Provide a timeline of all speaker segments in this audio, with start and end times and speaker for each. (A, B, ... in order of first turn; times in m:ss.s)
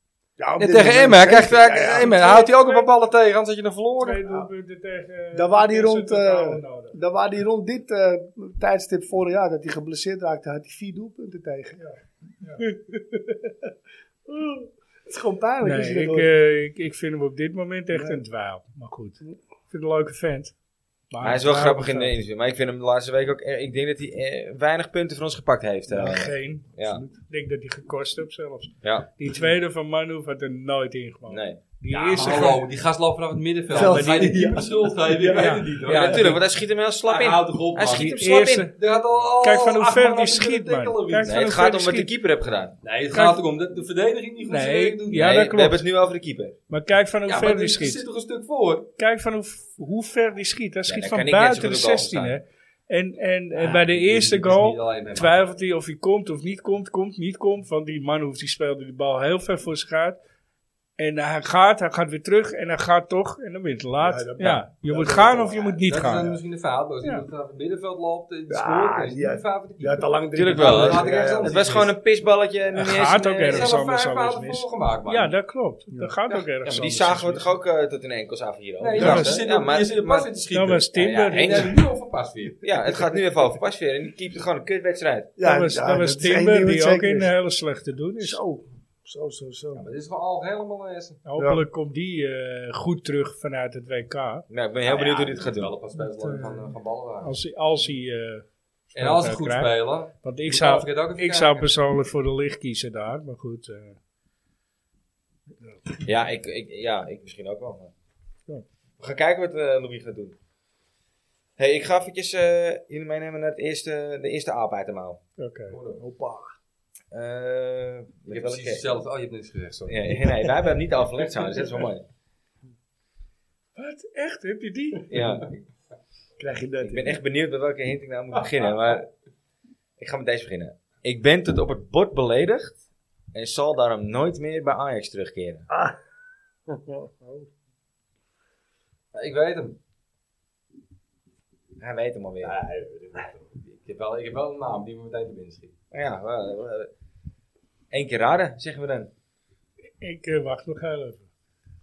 0:00.4-0:02.4 A
0:00.6-0:04.2 B
0:02.0-0:02.9 C
0:04.0-0:07.0 C
0:05.3-0:11.9 A
0:12.6-0:13.7 A
0:14.3-0:16.3 A
0:15.6-0:20.5 C
0:17.9-0:18.2 A
0:21.1-0:22.2 C
0:21.2-0:27.0 D
0:25.9-0:32.6 C
0:26.8-0:27.2 A
0:28.8-0:29.1 D
0:31.3-0:31.6 D
0:31.9-0:36.4 B
0:33.7-0:36.3 A
0:33.8-0:34.2 C
0:35.3-0:36.1 C
0:35.9-0:38.7 D
0:37.0-0:41.4 B
0:37.9-0:38.8 C
0:39.4-0:42.1 C
0:41.2-0:42.8 D
0:42.8-0:45.4 B
0:43.1-0:43.4 C
0:44.5-0:45.9 C
0:45.1-0:46.6 D
0:46.7-0:48.0 C
0:47.3-0:48.9 B
0:49.0-1:00.2 C
0:50.9-0:52.4 D
0:53.6-0:55.5 B
1:01.0-1:06.4 C
1:04.0-1:05.8 A
1:05.9-1:11.9 B
1:08.5-1:11.8 A
1:10.4-1:13.7 D
1:12.7-1:17.5 C
1:13.5-1:15.4 B
1:16.6-1:20.3 D
1:18.8-1:22.6 B
1:19.0-1:19.4 C
1:20.5-1:21.8 C
1:20.9-1:21.8 D
1:22.6-1:25.3 D
1:25.4-1:27.3 A
1:25.4-1:28.4 C
1:28.2-1:29.9 A
1:29.7-1:31.2 B
1:31.2-1:34.5 C
1:34.5-1:35.7 D
1:34.8-1:37.4 B
1:36.0-1:44.0 C
1:39.0-1:41.7 B
1:46.0-1:47.9 D
1:49.0-1:50.4 D
1:51.6-1:55.2 D
1:55.4-1:55.8 C
1:55.7-1:56.0 B
1:55.9-1:56.6 A
1:57.1-1:58.9 D
1:58.3-2:00.5 B
1:59.9-2:02.0 D
2:03.8-2:05.1 C
2:05.1-2:05.6 D
2:06.4-2:07.2 A
2:06.8-2:09.1 D
2:10.0-2:12.8 D
2:13.3-2:15.7 D
2:15.7-2:16.0 A
2:16.7-2:17.5 A
2:19.1-2:19.8 B
2:21.8-2:22.5 D
2:22.4-2:25.7 B
2:25.9-2:26.9 D
2:27.9-2:29.1 D
2:30.0-2:31.3 C